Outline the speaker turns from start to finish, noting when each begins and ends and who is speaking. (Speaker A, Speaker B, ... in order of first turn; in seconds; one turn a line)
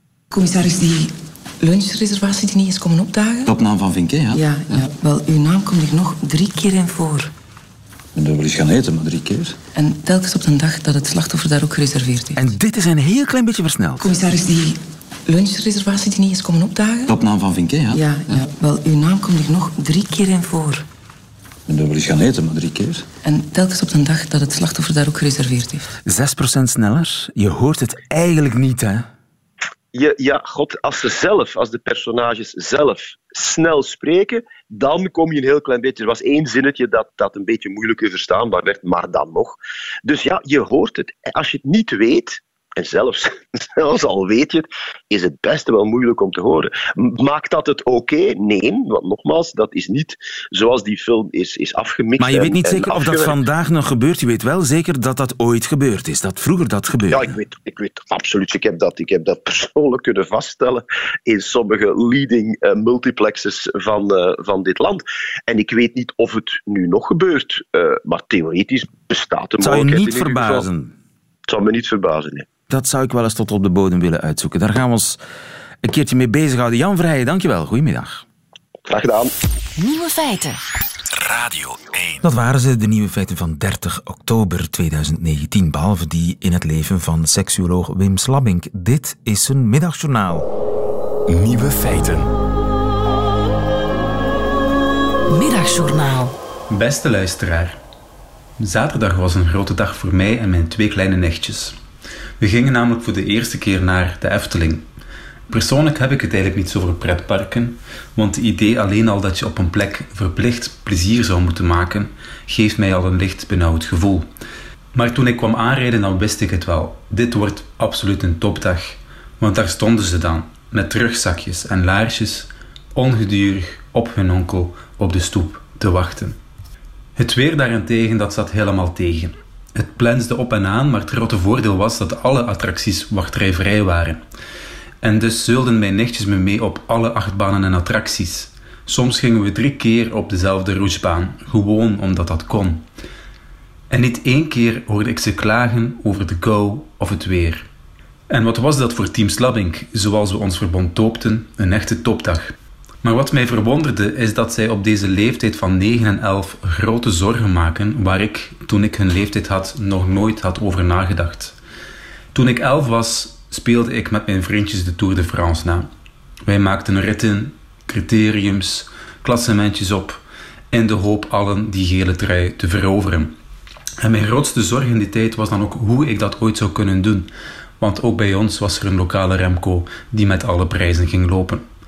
Speaker A: 0.3-3.5
Speaker B: 3.4-4.9
Speaker A: 4.3-7.3
Speaker B: 8.1-9.6
Speaker A: 9.7-12.4
Speaker C: 12.4-14.1
Speaker A: 14.0-17.1
Speaker B: 17.1-18.4
Speaker A: 17.9-20.8
Speaker B: 21.7-23.1
Speaker A: 23.2-25.9
Speaker C: 26.1-29.1
Speaker D: 29.9-53.4
Speaker C: 52.2-57.3
Speaker D: 57.1-70.7
Speaker C: 69.6-70.9
Speaker D: 71.5-72.5
Speaker C: 72.7-75.2
Speaker C: 75.8-78.2
Speaker D: 78.9-79.3
Speaker E: 79.8-80.6
Speaker C: 82.2-90.5
Speaker E: 95.3-96.3
Speaker F: 96.7-97.8
Speaker F: 98.6-101.8
Speaker F: 102.4-104.8
Speaker F: 105.5-114.3
Speaker F: 114.9-126.3
Speaker F: 127.2-134.2
Speaker F: 135.0-142.8
Speaker F: 143.9-147.7
Speaker F: 148.3-161.5
Speaker F: 162.3-165.9
Speaker F: 166.4-170.2
Speaker F: 170.7-173.3
Speaker F: 174.0-181.7